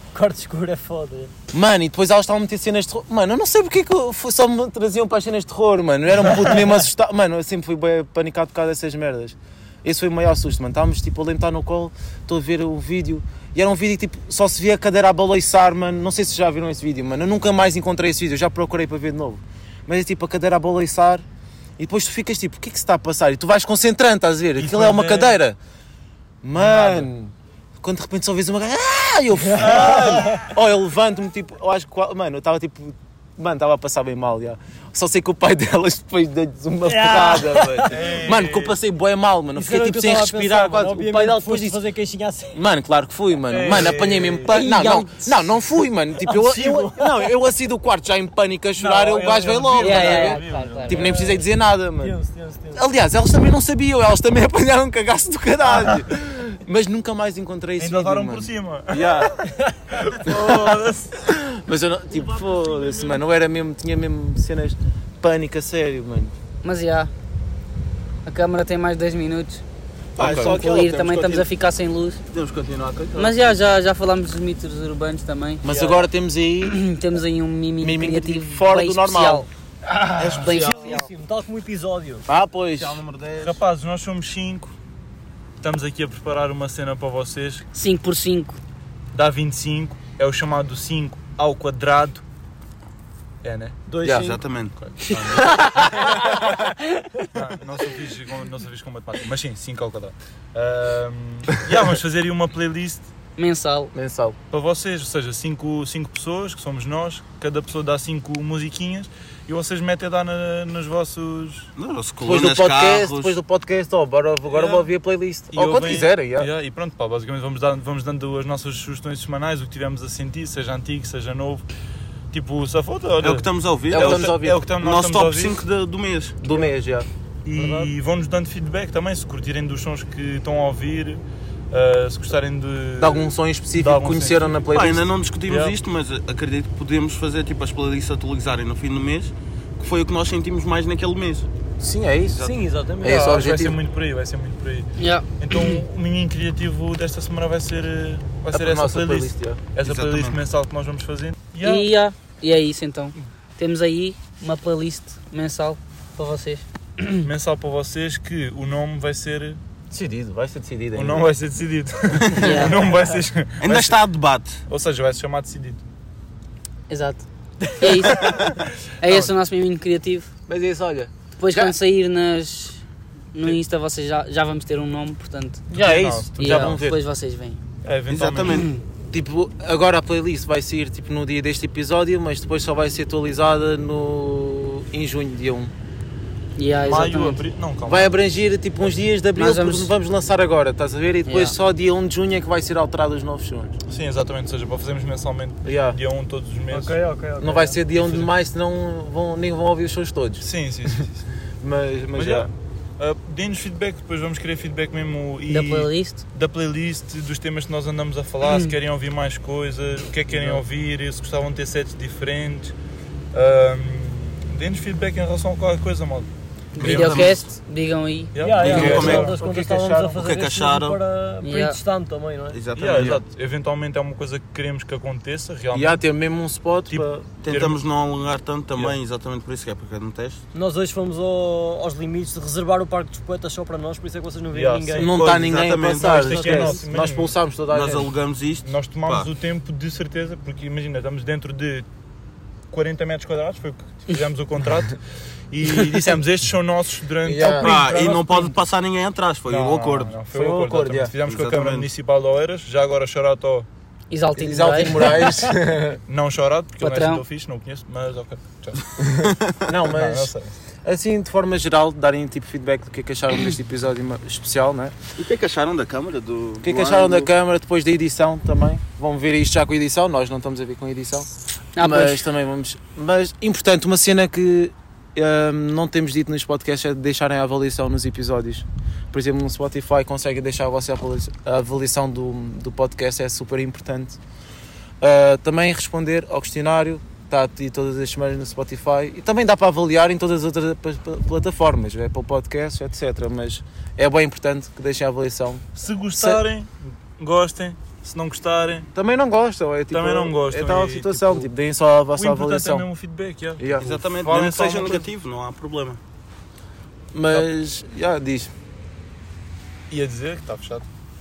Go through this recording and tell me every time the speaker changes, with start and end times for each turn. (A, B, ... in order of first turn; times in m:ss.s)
0:00.1-0:01.3 A
0:01.5-0:21.2 B
0:21.8-0:25.6 B
0:24.6-0:25.4 C
0:26.4-0:41.8 B
0:26.5-0:27.1 C
0:29.6-0:30.5 C
0:36.8-0:38.0 A
0:37.9-0:38.8 C
0:39.5-0:42.6 A
0:42.5-0:52.1 B
0:43.5-0:44.6 C
0:44.5-0:45.2 D
0:46.2-0:47.3 A
0:48.8-0:51.1 C
0:49.8-0:51.0 D
0:50.1-0:52.8 A
0:52.7-0:59.3 B
0:55.7-0:56.0 C
0:57.8-0:59.4 C
0:59.9-1:01.2 C
1:00.2-1:06.3 B
1:06.6-1:07.1 D
1:08.2-1:09.6 D
1:10.1-1:11.5 E
1:10.2-1:10.6 B
1:10.2-1:12.2 D
1:12.3-1:13.4 E
1:13.2-1:15.9 D
1:15.6-1:16.8 B
1:16.6-1:19.5 D
1:17.8-1:19.5 B
1:20.2-1:20.4 B
1:20.2-1:21.0 E
1:20.2-1:21.1 D
1:20.4-1:22.2 A
1:22.2-1:23.0 B
1:22.8-1:23.6 E
1:23.4-1:24.7 C
1:25.6-1:27.6 C
1:27.7-1:28.6 D
1:29.1-1:32.2 C
1:33.4-1:35.9 C
1:33.9-1:34.7 E
1:34.0-1:34.4 B
1:37.3-1:43.1 C
1:43.4-1:43.9 D
1:43.9-1:44.4 B
1:44.5-1:51.7 C
1:51.8-1:53.4 E
1:52.2-1:56.5 B
1:54.5-1:54.9 C
1:55.5-2:01.6 C
2:02.3-2:05.6 C
2:03.2-2:06.4 E
2:03.9-2:04.6 B
2:06.4-2:07.1 B
2:07.4-2:14.6 C
2:07.5-2:07.9 A
2:13.0-2:15.1 B
2:14.7-2:21.5 E
2:15.4-2:15.8 C
2:21.8-2:22.5 B
2:22.3-2:22.6 E
2:22.4-2:23.2 A
2:23.0-2:23.8 B
2:23.0-2:31.9 C
2:25.0-2:25.8 D
2:28.5-2:29.6 B
2:29.8-2:30.4 E
2:31.6-2:37.2 D
2:37.2-2:39.6 C
2:39.9-2:41.3 B
2:40.9-2:44.0 C
2:42.3-2:42.8 D
2:43.6-2:44.6 E
2:44.7-2:45.8 C
2:46.9-2:50.3 D
2:49.0-2:49.3 C
2:50.5-2:51.7 B
2:51.4-2:52.8 D
2:53.3-2:55.6 D
2:55.7-2:57.0 B
2:55.7-2:56.4 C
2:56.4-2:57.6 D
2:57.8-2:58.6 C
2:58.1-2:58.7 E
2:58.5-2:58.8 D
2:59.1-3:05.7 B
3:06.6-3:07.4 D
3:06.8-3:08.2 C
3:07.8-3:13.8 B
3:09.4-3:09.9 D
3:11.2-3:11.5 D
3:13.9-3:17.0 C
3:15.6-3:16.0 B
3:16.7-3:17.8 A
3:17.4-3:21.0 B
3:17.9-3:18.3 C
3:20.4-3:21.2 C
3:21.6-3:22.5 B
3:22.1-3:32.7 C
3:25.5-3:26.2 D
3:28.4-3:28.7 D
3:33.3-3:36.3 C
3:36.7-3:38.3 D
3:36.8-3:37.5 E
3:36.8-3:37.3 C
3:38.3-3:39.3 C
3:38.4-3:42.6 A
3:38.4-3:39.3 E
3:38.6-3:40.2 B
3:40.1-3:41.0 E
3:41.4-3:41.8 D
3:42.5-3:43.2 E
3:42.8-3:46.0 C
3:42.9-3:43.2 B
3:45.7-3:47.2 B
3:46.9-3:47.8 C
3:47.4-3:50.4 E
3:50.5-3:55.2 A
3:54.5-3:57.3 C
3:55.0-3:58.1 B
3:55.0-3:56.3 E
3:56.2-3:56.8 A
3:57.7-3:59.3 E
3:58.6-4:01.8 C
4:02.7-4:08.4 C
4:07.2-4:07.8 B
4:07.5-4:10.2 E
4:09.5-4:13.7 C
4:10.3-4:11.1 B
4:11.2-4:11.9 E
4:14.1-4:15.5 D
4:14.4-4:16.0 B
4:16.1-4:18.8 C
4:16.8-4:17.2 D
4:19.2-4:19.5 E
4:19.2-4:20.3 B
4:19.9-4:20.5 C
4:20.8-4:24.9 B
4:25.2-4:27.3 E
4:26.6-4:44.2 B
4:31.8-4:32.2 D
4:45.0-4:55.6 B
4:55.8-4:58.9 C
4:58.9-5:02.8 B
4:59.9-5:01.5 C
5:02.2-5:05.1 C
5:03.6-5:03.9 B
5:03.8-5:06.0 E
5:07.1-5:08.5 B
5:09.9-5:10.8 C